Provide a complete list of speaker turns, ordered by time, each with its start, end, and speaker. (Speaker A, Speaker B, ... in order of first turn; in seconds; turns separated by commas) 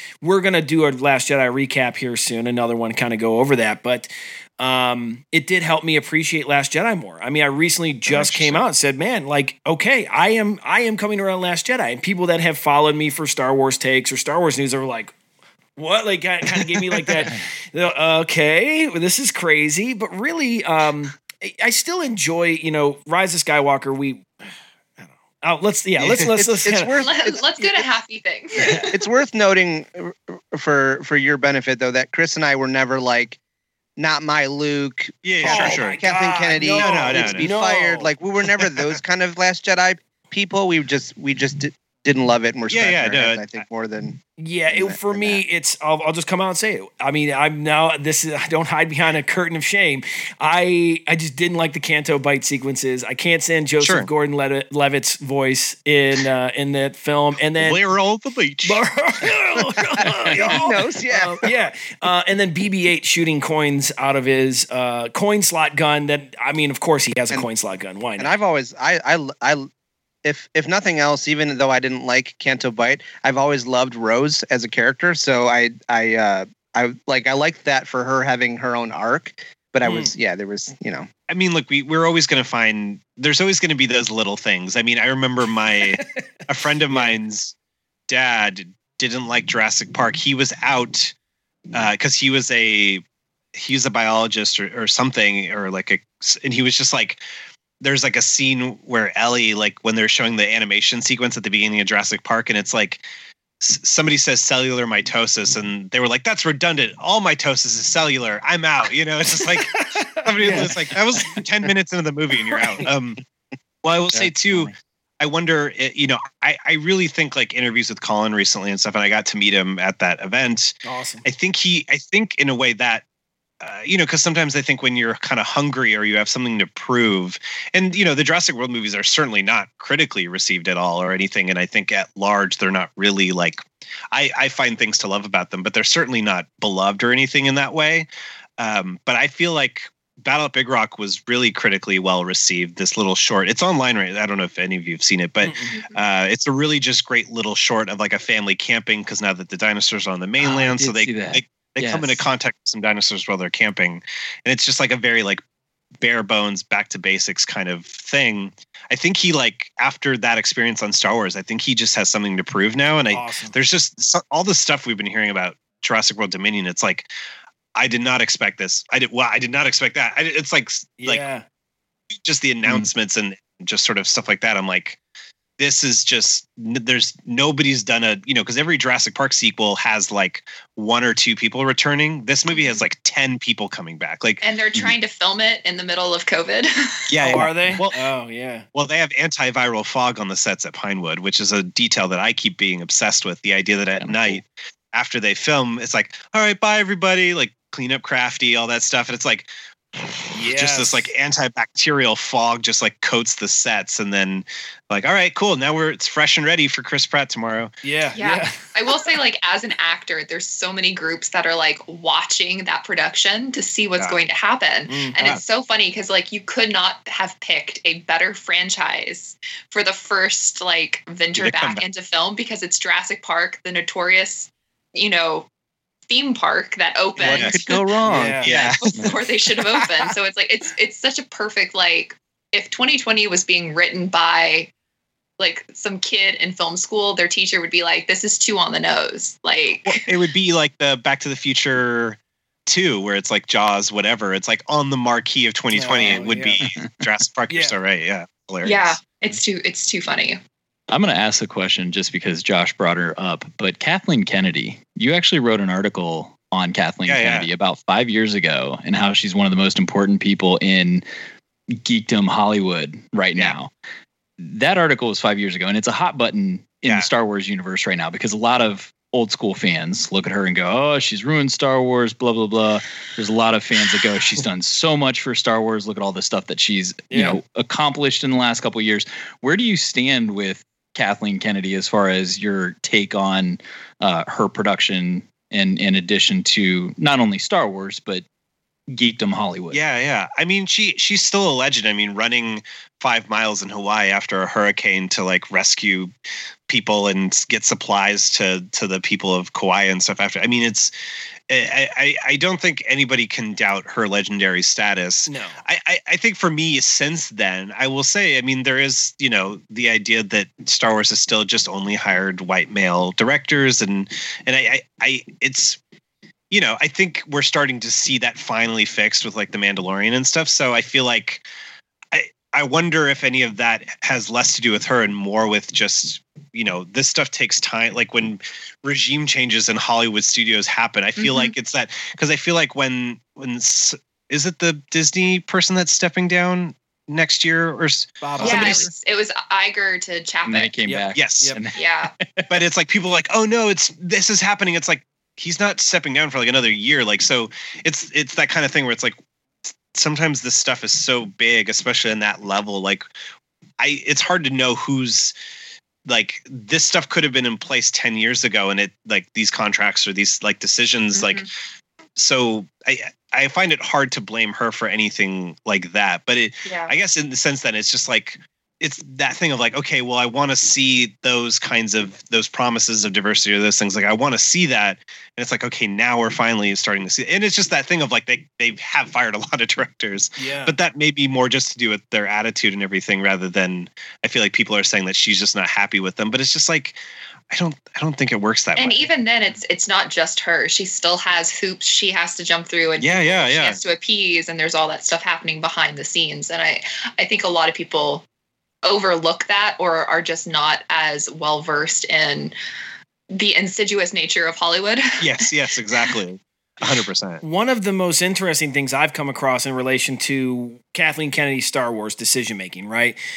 Speaker A: 0.2-15.1, Speaker B: 8.1-8.6, Speaker A: 15.8-24.3, Speaker A: 25.0-26.9, Speaker B: 26.0-26.3, Speaker C: 26.4-27.9, Speaker D: 27.0-29.0, Speaker C: 28.9-33.4, Speaker C: 34.0-45.4, Speaker B: 35.2-36.0, Speaker A: 35.4-38.1, Speaker B: 36.6-37.5, Speaker B: 42.7-43.6, Speaker A: 44.4-57.8, Speaker B: 53.8-54.1, Speaker B: 57.6-58.8, Speaker A: 58.6-68.3, Speaker B: 60.2-60.5, Speaker C: 60.3-61.5, Speaker C: 68.2-69.7, Speaker C: 70.2-81.1, Speaker A: 79.8-80.1, Speaker B: 81.3-87.5, Speaker B: 88.1-91.1, Speaker B: 91.7-93.0, Speaker B: 93.5-97.2, Speaker B: 97.8-103.0, Speaker B: 103.6-113.2, Speaker A: 109.4-110.8, Speaker A: 112.5-112.8, Speaker B: 113.8-123.0, Speaker A: 120.8-121.3, Speaker B: 123.6-155.4, Speaker A: 145.4-145.8, Speaker D: 145.8-146.0, Speaker E: 150.4-152.2, Speaker B: 156.0-167.1, Speaker A: 163.1-163.6, Speaker B: 167.8-171.2, Speaker A: 171.0-171.4, Speaker B: 172.1-175.0, Speaker B: 175.6-184.4, Speaker D: 182.5-182.8, Speaker D: 184.4-186.9, Speaker B: 187.1-188.0, Speaker A: 187.2-188.7, Speaker B: 188.7-199.5, Speaker E: 194.0-194.4, Speaker B: 200.3-207.7, Speaker A: 200.3-201.1, Speaker A: 207.8-208.5, Speaker D: 208.2-225.5, Speaker A: 214.9-215.2, Speaker B: 221.3-221.8, Speaker D: 226.1-227.8, Speaker B: 227.2-227.6, Speaker C: 227.2-228.5, Speaker A: 228.1-228.5, Speaker B: 228.3-228.9, Speaker D: 228.5-234.7, Speaker D: 235.4-240.1, Speaker B: 239.8-249.0, Speaker A: 245.7-246.6, Speaker A: 247.5-247.8, Speaker D: 248.6-250.4, Speaker E: 250.9-261.1, Speaker B: 257.1-257.5, Speaker E: 261.8-263.7, Speaker E: 264.4-288.2, Speaker A: 277.1-277.4, Speaker E: 288.9-289.8, Speaker B: 289.7-296.1, Speaker B: 296.7-300.9, Speaker B: 301.5-315.8, Speaker A: 305.3-305.6, Speaker B: 316.5-321.4, Speaker B: 322.1-338.9, Speaker D: 331.2-331.5, Speaker A: 338.2-338.8, Speaker D: 338.4-340.7, Speaker E: 340.5-341.8, Speaker A: 340.9-341.6, Speaker B: 341.1-341.6, Speaker D: 341.8-342.1, Speaker B: 342.5-349.2, Speaker B: 349.7-353.1, Speaker B: 353.8-355.3, Speaker B: 356.1-361.5, Speaker D: 361.1-361.5, Speaker B: 362.2-387.0, Speaker D: 366.6-366.9, Speaker A: 380.4-380.7, Speaker B: 387.5-389.1, Speaker D: 388.8-398.2, Speaker B: 393.0-393.8, Speaker D: 398.8-402.5, Speaker D: 403.3-405.4, Speaker B: 405.2-407.4, Speaker A: 407.4-413.2